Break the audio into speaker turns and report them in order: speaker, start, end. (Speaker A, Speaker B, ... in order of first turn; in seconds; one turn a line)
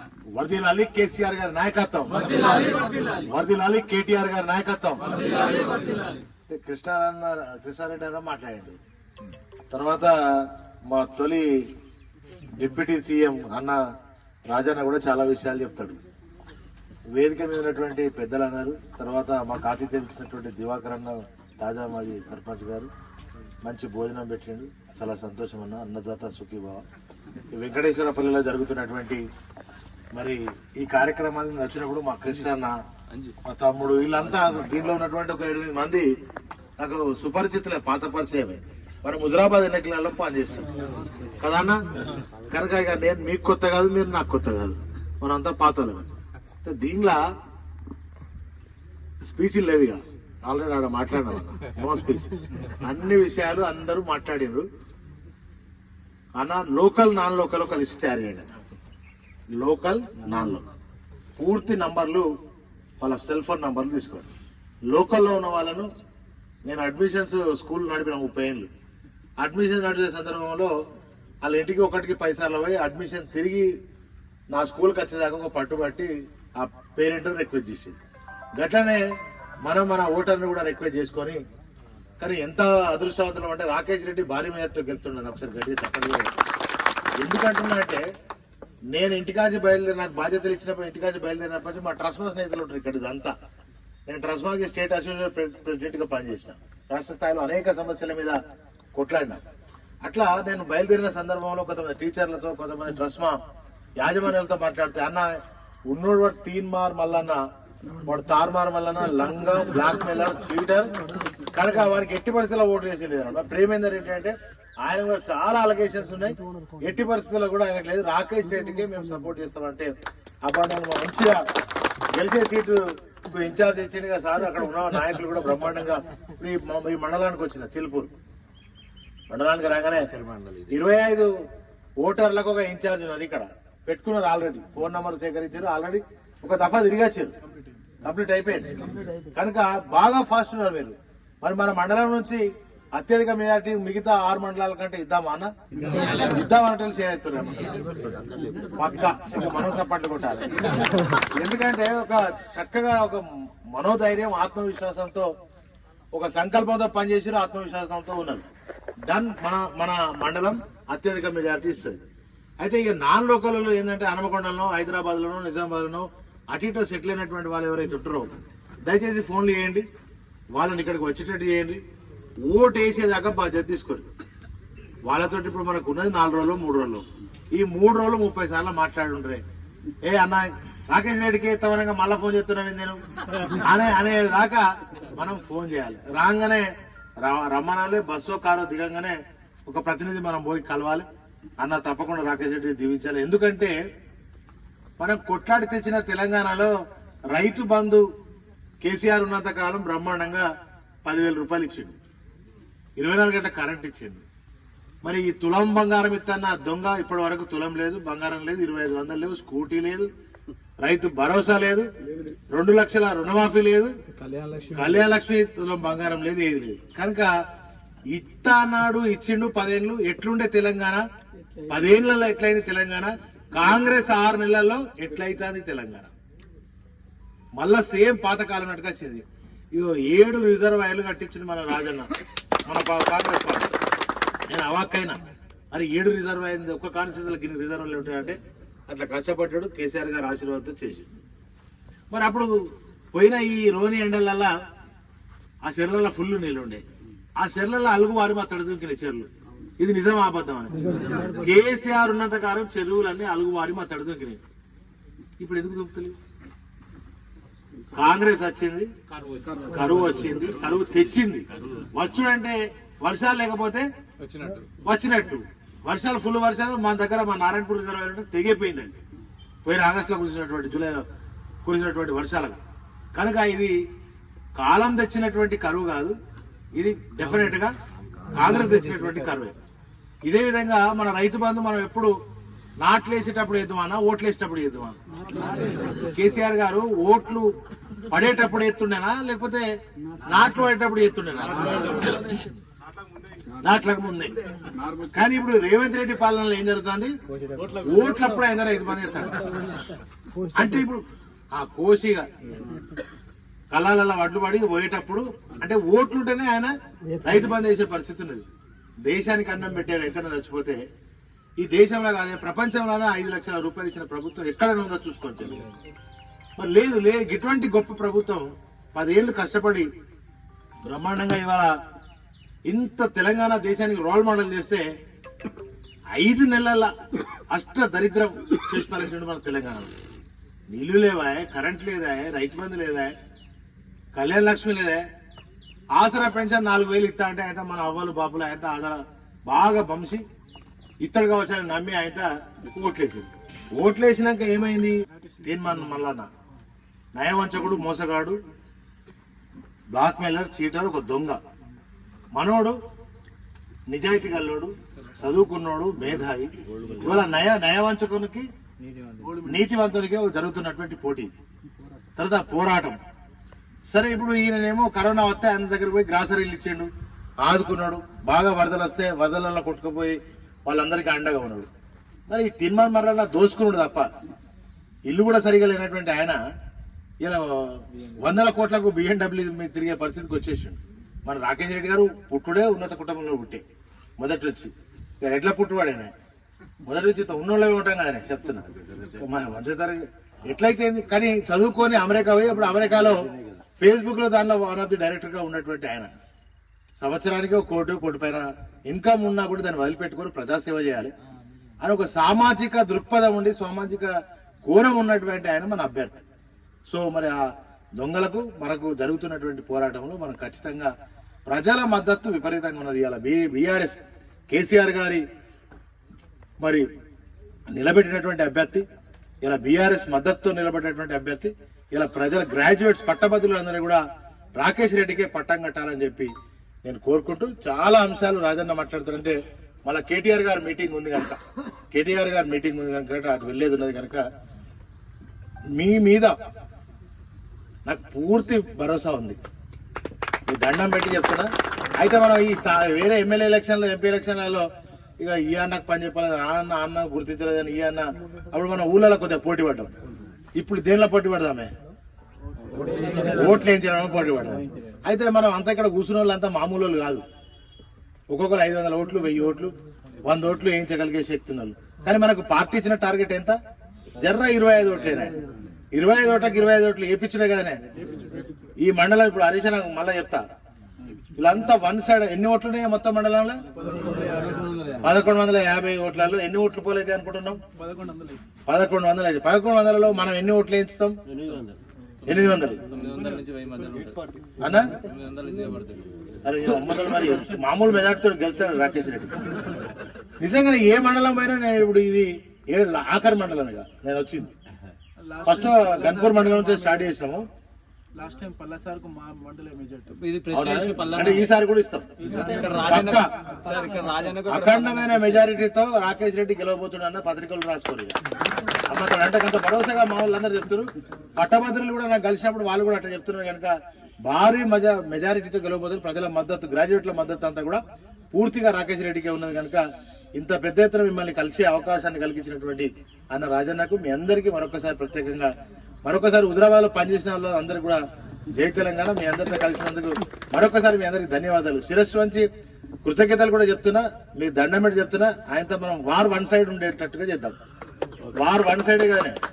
Speaker A: 0.3-2.3
Speaker A: 3.1-5.2
Speaker A: 6.5-8.8
Speaker A: 9.7-11.7
Speaker A: 12.5-13.8
Speaker A: 14.5-16.0
Speaker A: 17.1-22.9
Speaker A: 23.6-26.8
Speaker A: 27.5-29.2
Speaker A: 30.1-32.8
Speaker A: 33.4-36.1
Speaker A: 36.8-40.8
Speaker A: 41.4-41.9
Speaker A: 42.5-46.1
Speaker A: 46.6-47.2
Speaker A: 49.2-54.7
Speaker A: 56.3-58.5
Speaker A: 59.5-60.7
Speaker A: 61.4-62.3
Speaker A: 63.0-64.3
Speaker A: 64.9-65.9
Speaker A: 66.7-68.7
Speaker A: 69.4-70.7
Speaker A: 71.4-73.7
Speaker A: 74.5-78.0
Speaker A: 78.5-79.1
Speaker A: 79.6-81.4
Speaker A: 82.2-86.3
Speaker A: 87.2-88.0
Speaker A: 88.9-93.3
Speaker A: 94.1-98.4
Speaker A: 98.9-99.4
Speaker A: 100.0-103.4
Speaker A: 104.0-107.4
Speaker A: 108.0-121.4
Speaker A: 122.1-128.1
Speaker A: 129.3-131.3
Speaker A: 132.0-137.3
Speaker A: 138.0-138.8
Speaker A: 139.3-145.5
Speaker A: 146.0-147.8
Speaker A: 148.7-155.3
Speaker A: 156.1-158.5
Speaker A: 159.1-162.0
Speaker A: 162.6-169.9
Speaker A: 170.5-171.8
Speaker A: 172.4-174.1
Speaker A: 175.1-179.4
Speaker A: 180.0-191.1
Speaker A: 191.6-193.8
Speaker A: 195.0-196.7
Speaker A: 197.3-198.0
Speaker A: 198.8-200.5
Speaker A: 201.0-202.0
Speaker A: 203.0-204.2
Speaker A: 205.0-210.1
Speaker A: 210.8-211.9
Speaker A: 212.5-214.0
Speaker B: 214.2-214.7
Speaker A: 214.7-217.3
Speaker A: 218.1-221.0
Speaker A: 221.7-226.1
Speaker A: 227.6-229.2
Speaker A: 229.7-232.1
Speaker A: 232.7-233.7
Speaker A: 234.5-241.1
Speaker A: 242.1-244.5
Speaker A: 245.6-246.8
Speaker A: 247.4-254.4
Speaker A: 255.4-256.2
Speaker A: 257.9-258.9
Speaker A: 259.6-263.9
Speaker C: 264.2-264.7
Speaker A: 264.8-268.9
Speaker A: 269.6-271.1
Speaker A: 271.6-272.6
Speaker A: 273.1-273.8
Speaker A: 274.6-276.2
Speaker A: 276.7-277.7
Speaker A: 278.3-279.5
Speaker A: 280.2-282.1
Speaker A: 282.8-285.0
Speaker A: 285.9-287.6
Speaker A: 288.1-289.6
Speaker A: 290.2-292.4
Speaker A: 293.6-294.4
Speaker A: 294.9-297.1
Speaker A: 297.7-299.8
Speaker A: 300.5-302.3
Speaker A: 303.7-308.4
Speaker A: 309.0-310.9
Speaker A: 311.6-315.7
Speaker A: 316.6-319.9
Speaker A: 320.8-321.7
Speaker A: 322.6-324.9
Speaker A: 326.1-326.9
Speaker A: 327.5-329.9
Speaker A: 330.7-333.1
Speaker A: 334.1-335.0
Speaker A: 335.9-340.2
Speaker A: 341.0-346.3
Speaker A: 347.1-348.4
Speaker A: 349.9-351.4
Speaker A: 352.3-352.8
Speaker A: 353.9-358.5
Speaker A: 359.4-361.4
Speaker A: 362.2-363.0
Speaker A: 363.9-366.9
Speaker A: 367.4-371.7
Speaker A: 372.3-374.1
Speaker A: 375.1-376.4
Speaker A: 377.2-383.6
Speaker A: 384.2-386.1
Speaker A: 386.8-396.1
Speaker A: 397.0-401.1
Speaker A: 401.8-406.2
Speaker A: 406.9-410.9
Speaker A: 411.5-415.2
Speaker A: 416.6-416.9
Speaker A: 417.7-418.8
Speaker A: 419.4-424.0
Speaker A: 424.6-426.3
Speaker A: 426.8-431.4
Speaker A: 431.9-434.2
Speaker A: 435.7-436.4
Speaker A: 437.9-439.4
Speaker A: 440.5-444.7
Speaker A: 445.2-449.9
Speaker A: 450.6-451.7
Speaker A: 453.2-457.2
Speaker A: 458.3-459.7
Speaker A: 460.2-463.6
Speaker A: 464.2-465.3
Speaker A: 465.9-467.8
Speaker B: 468.0-468.7
Speaker A: 468.8-470.4
Speaker A: 471.4-473.6
Speaker B: 473.8-474.7
Speaker A: 475.0-477.6
Speaker B: 477.8-478.4
Speaker A: 478.7-481.2
Speaker C: 481.4-481.7
Speaker A: 482.2-482.9
Speaker C: 482.8-484.3
Speaker A: 484.6-485.0
Speaker C: 484.9-486.1
Speaker A: 486.4-489.5
Speaker A: 490.4-494.5
Speaker B: 495.2-496.5
Speaker A: 495.4-497.5
Speaker B: 498.1-500.1
Speaker C: 500.1-501.5
Speaker A: 500.5-502.1
Speaker C: 502.3-505.4
Speaker A: 502.7-503.4
Speaker A: 504.4-508.2
Speaker A: 508.9-517.8
Speaker A: 518.3-525.5
Speaker A: 526.0-532.4
Speaker A: 533.0-537.6
Speaker A: 538.3-539.4